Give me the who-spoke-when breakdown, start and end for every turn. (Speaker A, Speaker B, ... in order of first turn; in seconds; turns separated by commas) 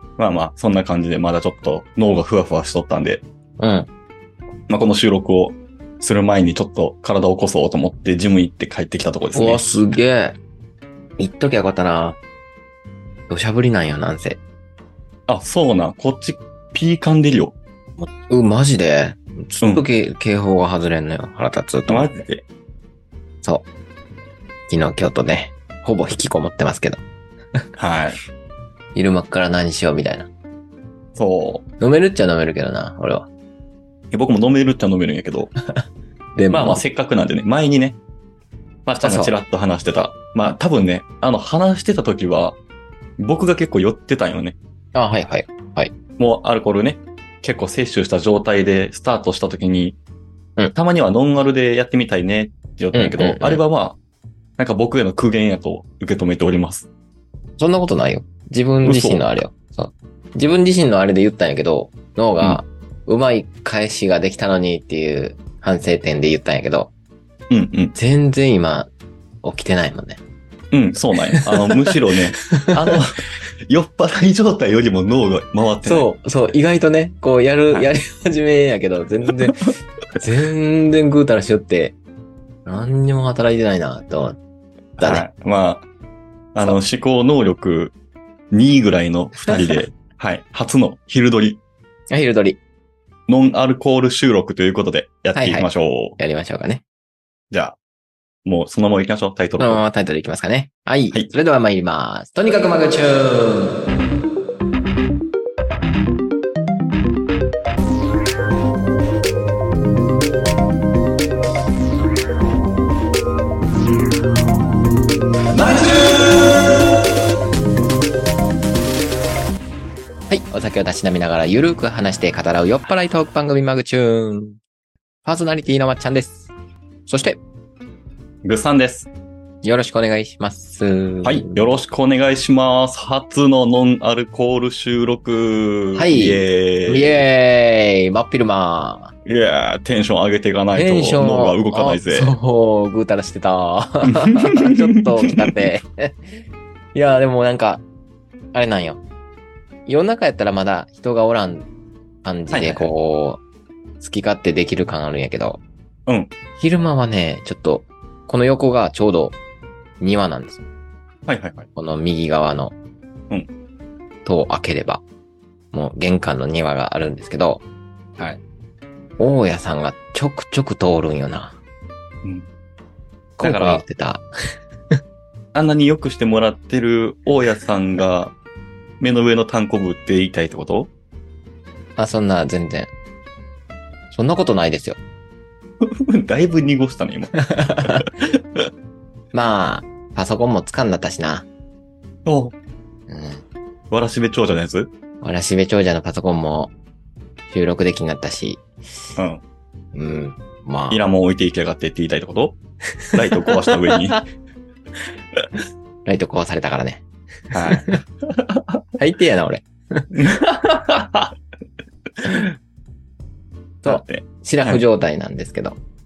Speaker A: 0.2-3.2, Speaker B: 3.6-3.9, Speaker A: 4.7-9.6, Speaker B: 9.3-10.4, Speaker B: 11.2-12.2, Speaker B: 13.3-14.4, Speaker A: 15.3-17.5, Speaker B: 18.0-22.2, Speaker A: 21.9-22.4, Speaker B: 24.7-27.0, Speaker A: 27.8-28.2, Speaker B: 28.9-30.3, Speaker A: 31.1-31.6, Speaker B: 31.8-33.3, Speaker A: 34.1-35.5, Speaker B: 36.4-36.8, Speaker A: 36.5-38.0, Speaker A: 38.9-42.6, Speaker B: 39.0-39.3, Speaker A: 43.2-44.6, Speaker B: 44.9-45.9, Speaker A: 46.2-50.0, Speaker A: 50.7-54.0, Speaker B: 52.9-53.6, Speaker A: 54.6-56.9, Speaker B: 57.6-66.9, Speaker A: 58.8-59.2, Speaker A: 67.5-67.9, Speaker B: 67.9-68.9, Speaker B: 69.4-70.2, Speaker A: 70.7-76.1, Speaker B: 71.4-73.0, Speaker B: 75.8-82.0, Speaker B: 82.7-84.4, Speaker A: 85.0-85.8, Speaker B: 85.0-85.2, Speaker A: 86.5-87.9, Speaker A: 88.5-91.6, Speaker B: 89.3-89.8, Speaker B: 92.1-92.6, Speaker A: 93.3-96.2, Speaker B: 95.3-96.8, Speaker A: 97.5-97.8, Speaker A: 98.4-99.8, Speaker B: 99.6-103.8, Speaker A: 115.5-116.2, Speaker B: 120.3-124.6, Speaker B: 125.2-126.5, Speaker B: 127.1-127.4, Speaker A: 128.4-129.1, Speaker B: 129.6-131.7, Speaker A: 131.2-137.2, Speaker B: 135.9-139.1, Speaker A: 139.2-142.3, Speaker B: 140.7-147.8, Speaker A: 144.2-144.7, Speaker B: 148.5-149.0, Speaker B: 149.8-151.7, Speaker B: 152.2-153.4, Speaker A: 152.5-152.9, Speaker B: 154.0-155.6, Speaker B: 156.6-159.4, Speaker B: 160.0-160.7, Speaker A: 161.3-161.7, Speaker B: 161.8-162.7, Speaker B: 164.2-165.0, Speaker B: 165.7-167.6, Speaker B: 169.2-171.6, Speaker B: 173.4-174.2, Speaker A: 173.4-173.8, Speaker A: 175.5-178.3, Speaker A: 179.0-180.9, Speaker B: 182.0-182.9, Speaker B: 184.1-185.0, Speaker A: 185.8-188.7, Speaker B: 187.4-188.1, Speaker B: 189.3-191.5, Speaker A: 192.2-192.5, Speaker B: 193.1-193.4, Speaker A: 193.9-194.9, Speaker B: 195.2-196.7, Speaker B: 197.5-198.7, Speaker A: 199.2-199.4, Speaker B: 199.9-201.0, Speaker A: 200.9-202.6, Speaker B: 203.0-204.2, Speaker A: 203.1-204.2, Speaker B: 206.0-208.0, Speaker A: 207.5-208.8, Speaker B: 209.0-210.1, Speaker A: 210.1-211.3, Speaker A: 212.2-212.5, Speaker B: 213.8-215.8, Speaker A: 213.8-214.8